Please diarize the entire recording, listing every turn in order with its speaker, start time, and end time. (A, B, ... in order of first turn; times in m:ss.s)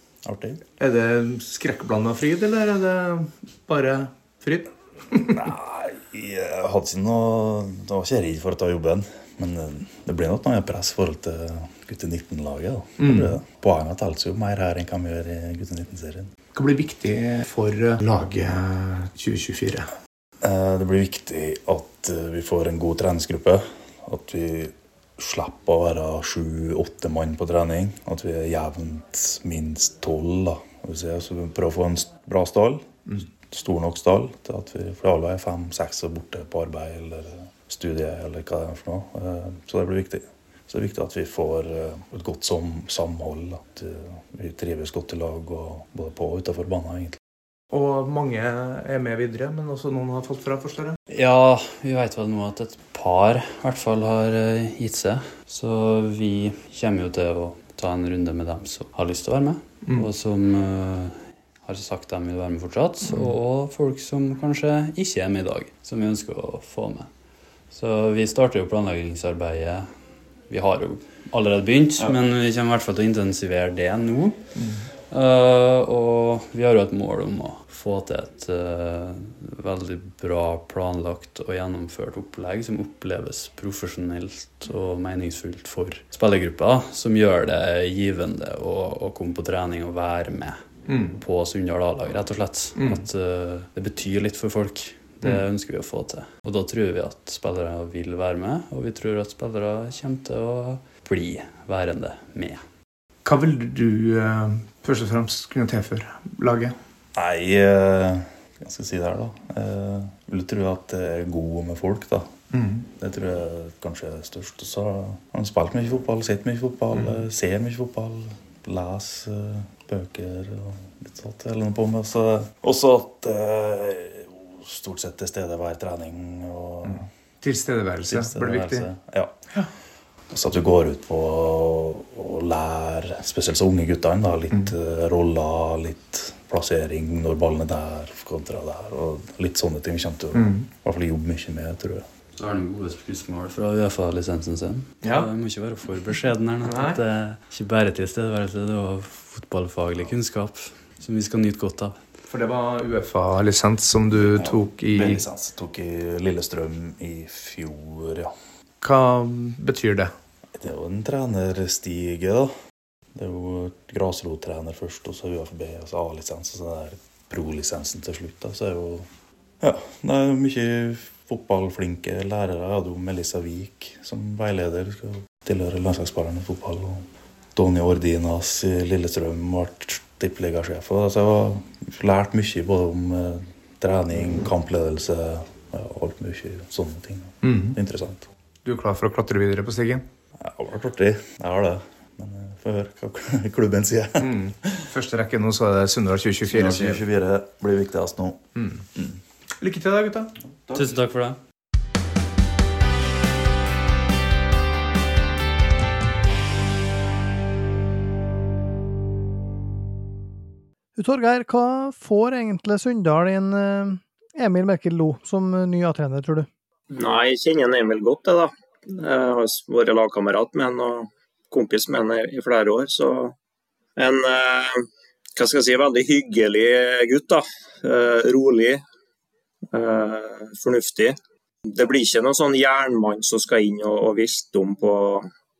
0:00.2-0:00.6 A
0:00.8-0:05.4 B
0:05.3-0:16.3 A
0:13.0-0:13.4 B
0:16.6-0:19.9 B
0:20.4-0:32.9 A
0:33.4-0:47.2 A
0:47.7-0:51.0 B
0:51.1-1:07.1 C
1:07.7-1:09.9 C
1:10.5-1:14.4 C
1:14.5-1:14.9 B
1:15.1-1:30.6 C
1:30.9-1:31.2 B
1:31.1-1:42.6 C
1:32.8-1:33.0 B
1:43.2-1:46.8 B
1:47.2-1:52.3 A
1:52.5-1:52.8 B
1:52.9-2:07.1 A
1:56.9-1:57.2 B
2:06.8-2:08.9 B
2:08.0-2:09.3 A
2:10.3-2:22.0 A
2:20.3-2:20.7 B
2:22.3-2:32.0 C
2:25.0-2:25.3 B
2:26.6-2:27.0 B
2:32.3-2:35.2 B
2:34.2-2:38.3 A
2:38.8-2:40.1 B
2:40.6-2:42.5 A
2:43.2-2:49.1 A
2:49.6-3:08.3 A
3:07.4-3:07.8 B
3:08.6-3:10.0 B
3:10.4-3:14.8 A
3:14.2-3:17.0 B
3:16.5-3:18.4 A
3:18.6-3:18.8 B
3:18.9-3:19.2 A
3:19.6-3:20.3 B
3:20.7-3:20.9 A
3:20.8-3:21.4 C
3:31.0-3:36.5 D
3:36.9-3:43.3 E
3:44.0-3:44.8 E
3:45.4-3:48.8 E
3:49.7-3:51.2 E
3:51.7-3:55.3 E